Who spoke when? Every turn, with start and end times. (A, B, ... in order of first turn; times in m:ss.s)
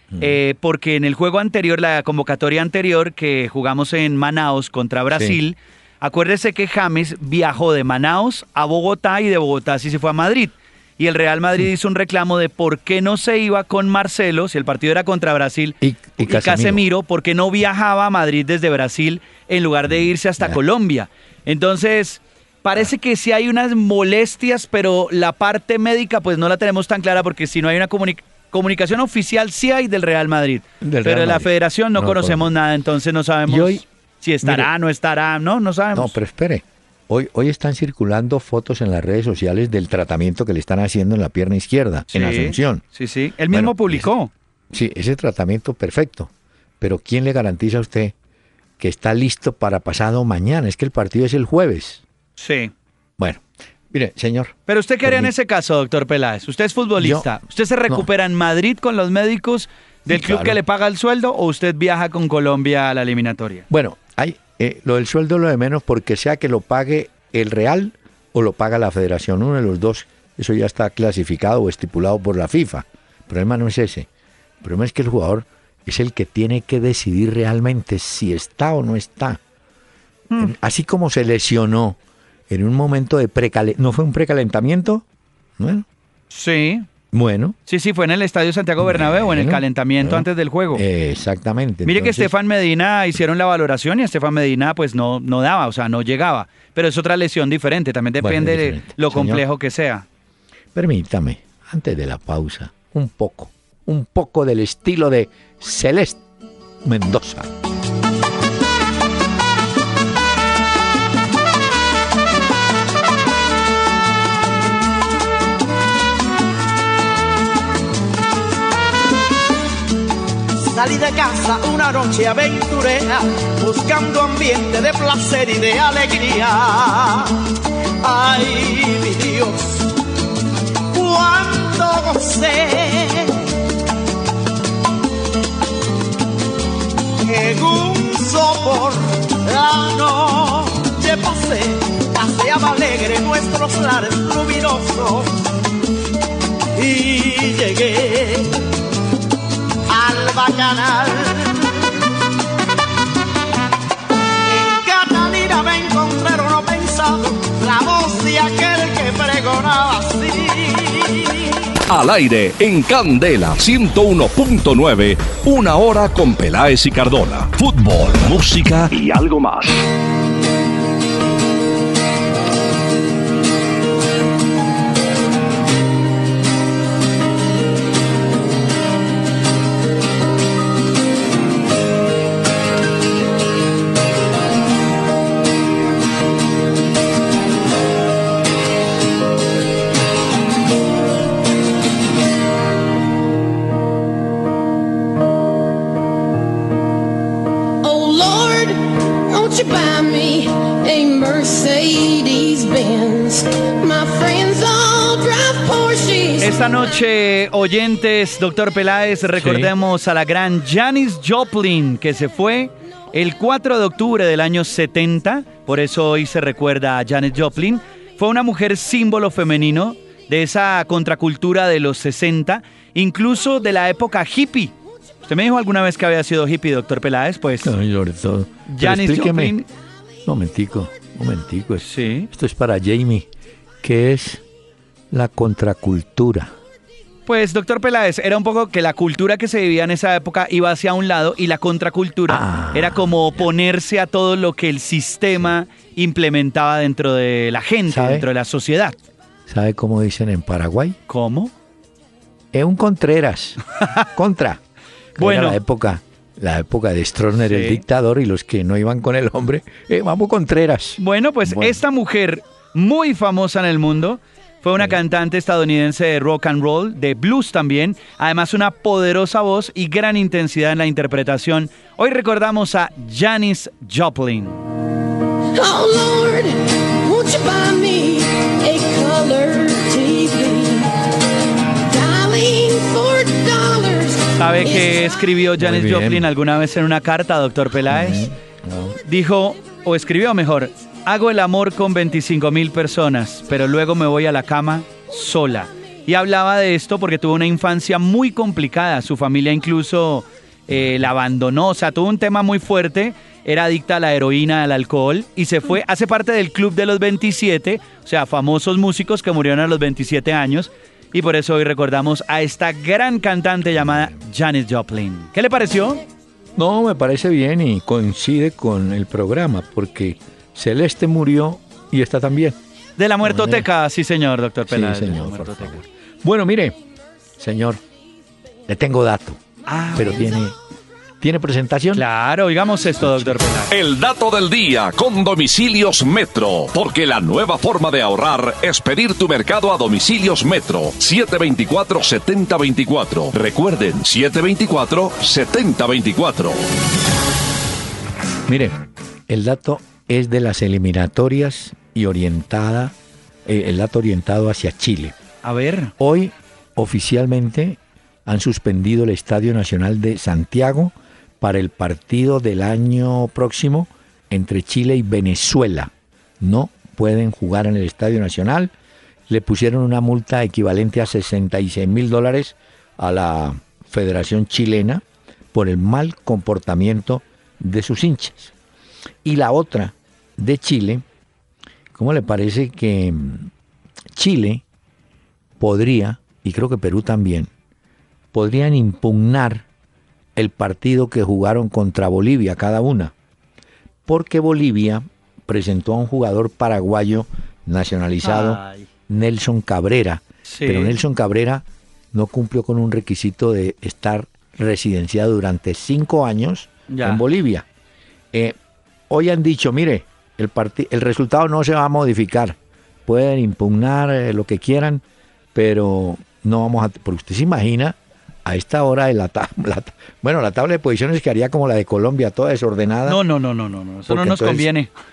0:00.1-0:00.4 A
0:00.2-0:36.2 B
0:05.1-0:05.4 A
0:15.8-0:16.8 A
0:19.9-0:20.6 A
0:30.8-0:32.5 A
0:33.4-0:33.8 A
0:34.4-0:34.7 A
0:35.9-0:42.8 A
0:42.1-0:44.3 B
0:43.5-0:44.1 A
0:44.7-0:48.1 A
0:48.8-0:52.0 A
0:52.4-0:52.7 B
0:53.2-0:55.3 A
0:54.7-1:03.6 B
0:57.0-0:57.4 A
1:00.1-1:00.6 A
1:03.7-1:14.1 A
1:14.6-1:19.4 A
1:20.4-1:22.0 A
1:22.5-1:25.0 A
1:25.6-1:25.8 A
1:26.3-1:26.9 B
1:27.1-1:27.6 A
1:27.7-1:30.8 B
1:28.8-1:32.3 A
1:31.8-1:40.0 B
1:38.2-1:39.4 A
1:40.7-1:46.2 A
1:46.8-1:47.5 A
2:00.7-2:07.4 C
2:08.0-2:09.9 C
2:10.9-2:13.4 C
2:17.2-2:25.3 C
2:26.7-2:28.6 C
2:29.9-2:31.7 C
2:34.4-2:41.5 C
2:41.9-2:49.7 D
3:17.8-3:26.8 E
3:26.4-3:44.7 B
3:29.4-3:29.7 A
3:45.2-3:47.7 B
3:47.6-3:49.6 A
3:48.7-3:49.6 B
3:50.2-3:53.3 A
3:51.8-3:52.3 B
3:53.8-3:54.4 A
3:55.1-3:56.5 A
3:57.2-4:09.0 B
4:02.3-4:03.5 A
4:07.9-4:08.3 A
4:09.5-4:11.0 A
4:11.1-4:11.5 B
4:12.5-4:14.6 A
4:15.2-4:21.8 A
4:15.2-4:15.6 B
4:17.4-4:17.8 B
4:21.0-4:34.6 B
4:35.5-4:41.0 E
4:41.8-4:45.2 E
4:44.4-4:48.3 B
4:45.6-4:46.3 A
4:47.9-4:49.0 A
4:49.0-5:16.0 B
5:00.7-5:01.0 A
5:13.7-5:14.2 A
5:16.5-5:22.6 A
5:23.0-5:25.8 B
5:23.2-5:23.7 A
5:24.7-5:26.8 A
5:27.4-5:27.8 A
5:28.7-5:29.4 A
5:29.7-5:30.3 B
5:29.9-5:30.6 A
5:31.2-5:32.0 A
5:31.9-5:33.7 B
5:33.0-5:33.3 A
5:33.7-5:46.6 D
5:48.5-5:48.8 A
5:49.3-5:52.9 A
5:53.4-5:55.2 A
5:55.4-5:55.9 B
5:56.0-6:08.7 A
6:09.3-6:18.5 A
6:19.2-6:21.0 A
6:21.9-6:23.5 A
6:24.1-6:24.6 A
6:25.6-6:27.5 A
6:28.3-6:29.6 A
6:30.4-6:33.1 A
6:34.0-6:47.6 A
6:38.2-6:38.8 B
6:40.5-6:40.9 B
6:46.9-6:47.2 B
6:49.1-6:55.0 A
6:55.5-7:03.2 A
7:03.0-7:04.9 B
7:04.1-7:04.7 A